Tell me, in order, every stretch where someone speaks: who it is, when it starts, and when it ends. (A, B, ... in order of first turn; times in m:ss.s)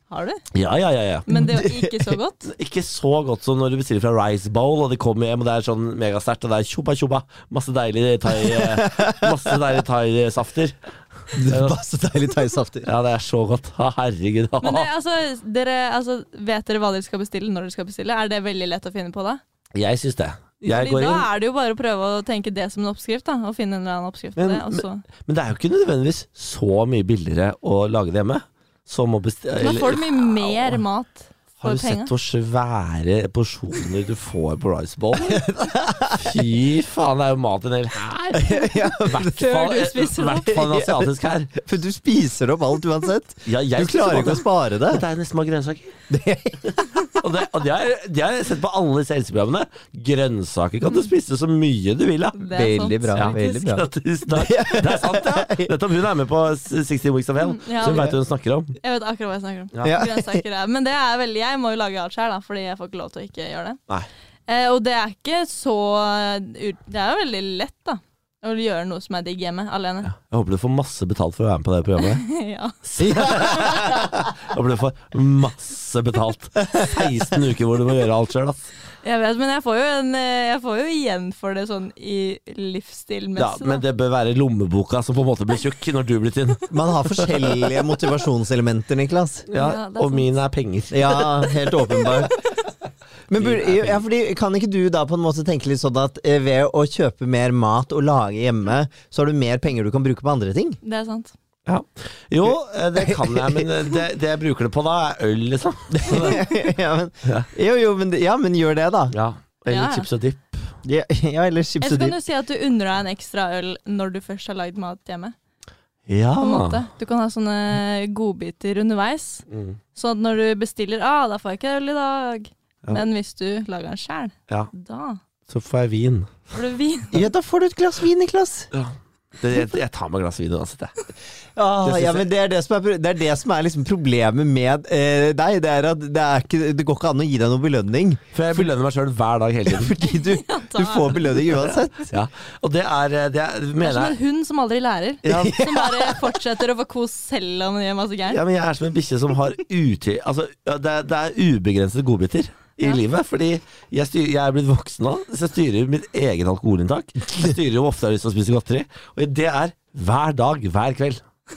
0:00.1-0:00.4 A
0:00.5-0:01.3 B
0:01.2-0:02.5 A
0:01.3-0:02.0 C
0:02.5-0:10.8 B
0:08.3-0:09.5 C
0:11.3-0:11.8 B
0:11.3-0:12.9 C
0:12.8-0:14.9 B
0:14.6-0:19.4 A
0:19.7-0:21.3 B
0:20.7-0:25.0 A
0:24.4-0:30.8 B
0:29.6-0:32.1 A
0:31.6-0:35.5 B
0:35.2-0:36.4 C
0:36.1-0:41.6 B
0:38.3-0:39.4 C
0:39.4-0:40.6 A
0:40.5-0:41.1 C
0:41.6-0:45.0 C
0:43.4-0:45.9 B
0:46.1-0:47.0 C
0:47.0-0:52.5 B
0:52.3-0:53.5 A
0:52.5-0:55.7 C
0:53.1-0:58.8 B
0:57.4-0:58.1 A
0:57.9-0:58.1 C
0:58.8-1:03.8 A
0:59.8-1:00.4 C
1:04.5-1:10.1 A
1:10.1-1:12.2 B
1:12.0-1:14.0 A
1:12.8-1:18.7 B
1:13.0-1:14.1 C
1:16.6-1:17.0 C
1:19.0-1:23.8 A
1:23.4-1:27.8 B
1:26.7-1:29.5 C
1:29.5-1:32.1 B
1:29.5-1:30.3 A
1:30.9-1:32.4 C
1:33.3-1:40.8 C
1:33.4-1:34.0 B
1:40.8-1:41.3 A
1:41.6-1:46.4 B
1:43.0-1:43.7 C
1:45.9-1:49.1 C
1:49.1-1:50.7 B
1:49.7-1:50.1 A
1:50.8-1:52.2 C
1:51.8-1:55.3 A
1:56.1-1:56.8 B
1:56.4-2:05.2 A
1:59.5-1:59.8 B
2:05.5-2:06.5 B
2:06.5-2:07.2 A
2:07.1-2:08.7 C
2:08.7-2:10.9 B
2:11.6-2:18.7 C
2:11.8-2:12.3 B
2:18.3-2:19.9 B
2:19.6-2:22.1 C
2:20.0-2:21.8 A
2:22.1-2:24.2 B
2:23.8-2:28.4 A
2:25.2-2:25.6 B
2:25.3-2:26.3 C
2:28.3-2:41.2 B